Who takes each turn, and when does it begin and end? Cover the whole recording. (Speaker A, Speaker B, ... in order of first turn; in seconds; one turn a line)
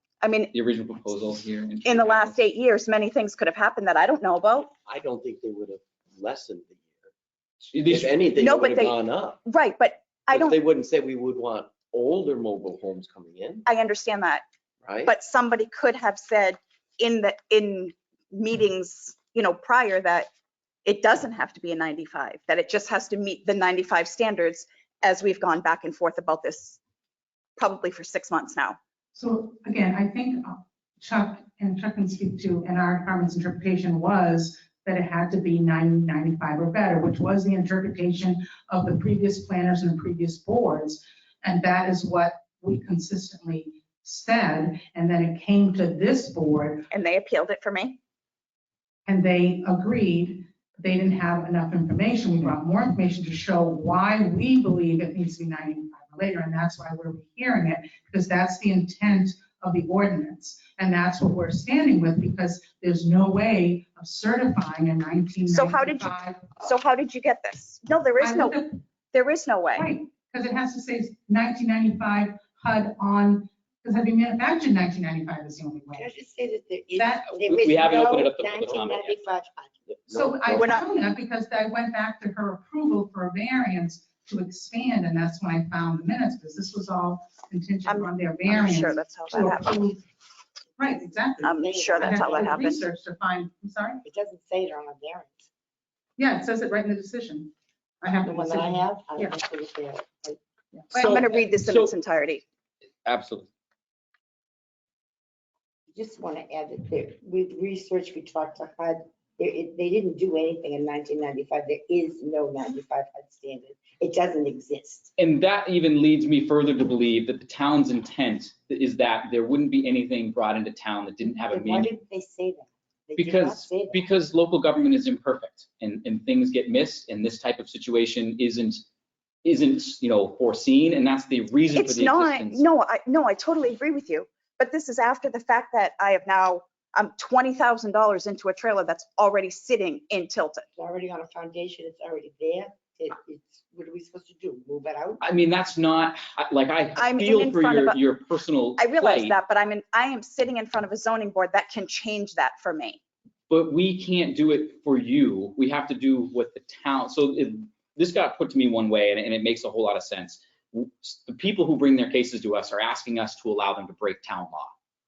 Speaker A: 0.2-0.5
Speaker B: 0.5-2.4
Speaker A: 1.8-4.7
Speaker C: 4.8-7.1
Speaker B: 7.7-8.2
Speaker C: 7.8-9.4
Speaker A: 8.3-10.6
Speaker C: 10.3-13.6
Speaker A: 13.7-14.4
Speaker C: 14.8-15.1
Speaker A: 15.1-20.3
Speaker A: 20.8-26.8
Speaker A: 27.6-28.8
Speaker D: 29.1-46.9
Speaker A: 46.9-48.0
Speaker D: 49.0-66.5
Speaker A: 65.5-68.6
Speaker D: 68.2-68.8
Speaker A: 69.1-69.9
Speaker D: 69.7-76.1
Speaker E: 75.9-79.9
Speaker D: 77.0-77.3
Speaker B: 77.4-79.2
Speaker C: 80.0-80.8
Speaker D: 80.1-90.0
Speaker A: 80.5-80.8
Speaker A: 87.8-89.7
Speaker D: 90.8-94.0
Speaker E: 90.8-92.8
Speaker A: 91.4-92.8
Speaker E: 94.0-95.5
Speaker D: 96.2-99.4
Speaker E: 98.2-100.4
Speaker D: 100.9-101.2
Speaker A: 100.9-102.4
Speaker B: 100.9-101.9
Speaker B: 103.0-103.5
Speaker E: 105.9-115.1
Speaker B: 115.2-121.9
Speaker E: 121.4-124.0
Speaker B: 123.2-128.8
Speaker B: 129.4-132.6
Speaker A: 131.7-140.7
Speaker E: 140.8-145.2
Speaker B: 145.2-149.3
Speaker A: 146.9-148.0
Speaker A: 148.8-153.0
Speaker B: 153.5-164.7